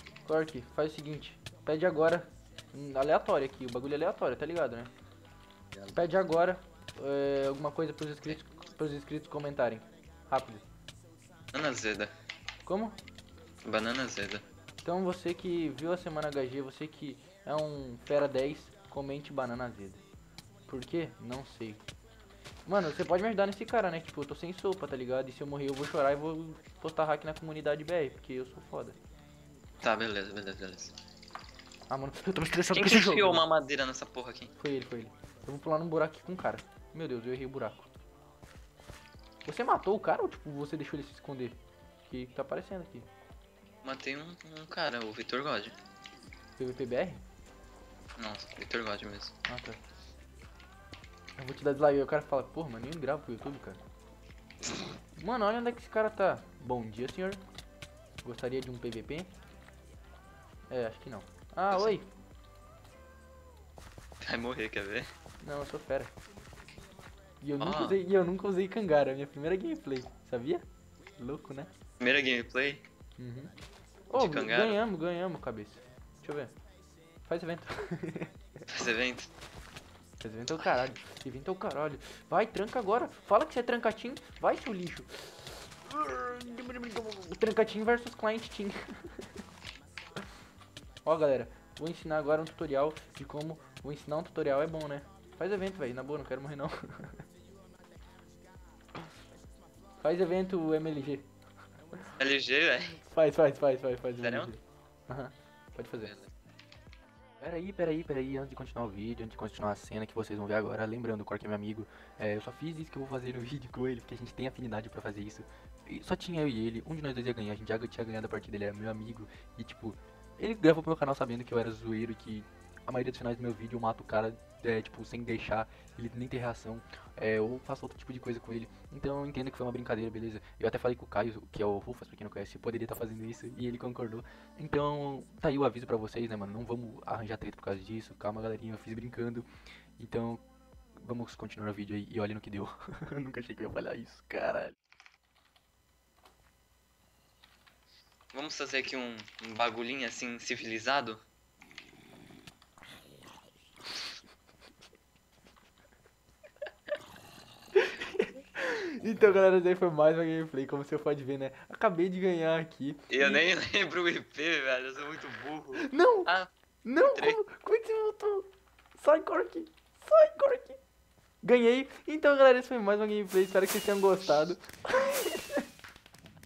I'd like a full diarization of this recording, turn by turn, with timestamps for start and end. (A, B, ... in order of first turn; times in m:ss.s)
0:00.2-0:04.9 A
0:05.9-0:10.6 A
0:11.5-0:12.1 B
0:12.6-0:13.0 A
0:13.6-0:14.4 B
0:14.8-0:20.0 A
0:20.7-0:21.8 A
0:22.7-0:29.0 A
0:29.8-0:31.0 B
0:31.9-0:33.4 A
0:32.7-0:34.5 B
0:34.6-0:37.9 A
0:39.4-0:43.1 A
0:43.8-0:45.8 B
0:46.6-0:47.2 A
0:48.2-0:49.3 B
0:49.5-0:49.8 A
0:51.4-0:53.8 A
0:55.2-0:57.4 A
0:58.2-0:59.3 A
1:00.7-1:02.1 A
1:04.2-1:05.1 B
1:05.4-1:06.1 A
1:07.4-1:10.6 A
1:07.6-1:08.0 B
1:11.2-1:11.7 A
1:12.0-1:12.8 B
1:13.2-1:13.5 A
1:14.1-1:16.5 A
1:14.2-1:14.8 B
1:17.2-1:18.4 A
1:18.7-1:19.3 B
1:20.2-1:29.3 A
1:31.0-1:37.2 A
1:40.0-1:41.3 A
1:42.2-1:43.0 B
1:43.1-1:46.1 A
1:44.2-1:44.5 B
1:46.0-1:46.3 B
1:47.4-2:19.4 A
2:20.0-2:20.4 A
2:21.0-2:24.7 A
2:28.3-2:31.2 B
2:37.8-2:43.4 A
2:43.1-2:47.4 B
2:45.8-2:46.3 A
2:46.8-2:50.8 A
2:51.4-2:55.6 A